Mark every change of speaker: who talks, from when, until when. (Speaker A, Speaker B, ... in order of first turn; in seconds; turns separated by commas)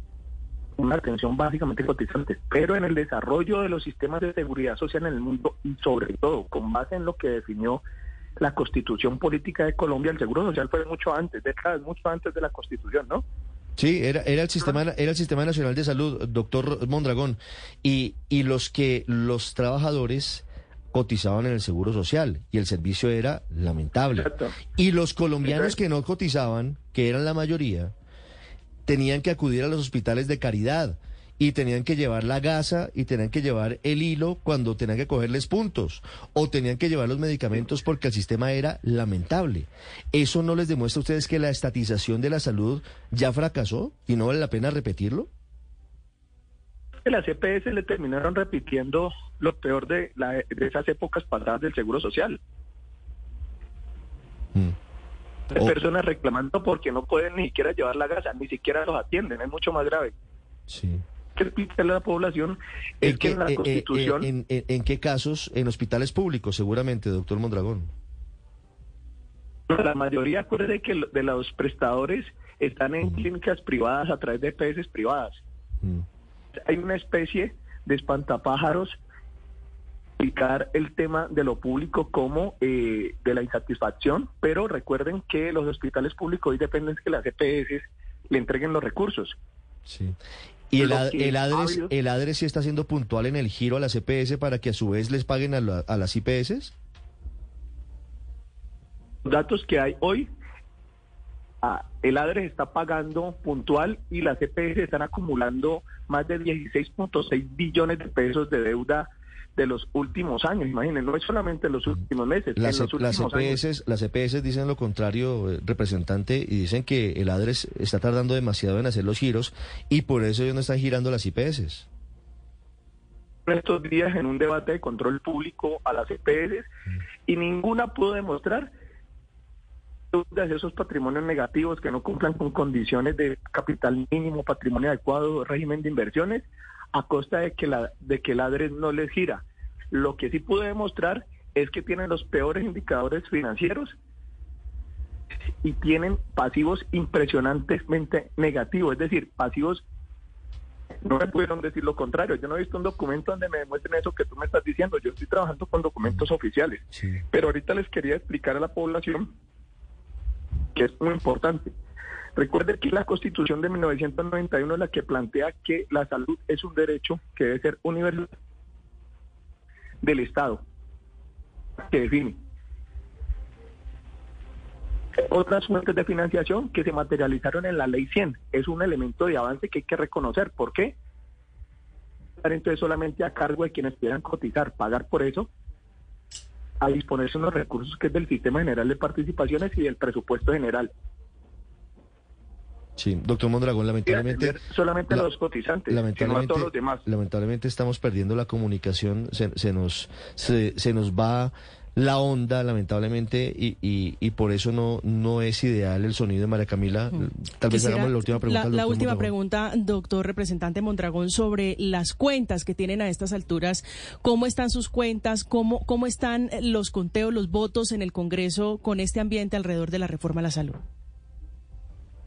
Speaker A: 0.8-7.8, Speaker A: 8.4-13.2, Speaker B: 13.8-27.9, Speaker A: 24.2-24.6, Speaker B: 28.9-45.3, Speaker A: 47.0-52.4, Speaker A: 55.5-60.1, Speaker B: 60.7-61.0, Speaker A: 61.4-64.3, Speaker B: 63.0-67.9, Speaker A: 69.7-75.4, Speaker A: 76.7-79.0, Speaker A: 80.2-89.4, Speaker B: 89.9-90.2, Speaker B: 90.7-96.8, Speaker A: 90.8-91.9, Speaker A: 99.2-100.3, Speaker A: 101.6-113.6, Speaker B: 112.6-121.9, Speaker A: 123.5-126.7, Speaker A: 127.3-128.7, Speaker A: 130.1-144.0, Speaker A: 145.6-149.8, Speaker A: 151.1-159.3, Speaker A: 160.8-161.7, Speaker A: 162.4-168.3, Speaker A: 170.0-170.6, Speaker A: 171.9-172.4, Speaker A: 175.2-181.0, Speaker A: 182.4-185.5, Speaker A: 186.8-190.9, Speaker B: 193.0-194.6, Speaker A: 194.1-197.1, Speaker B: 195.9-209.3, Speaker C: 207.7-220.8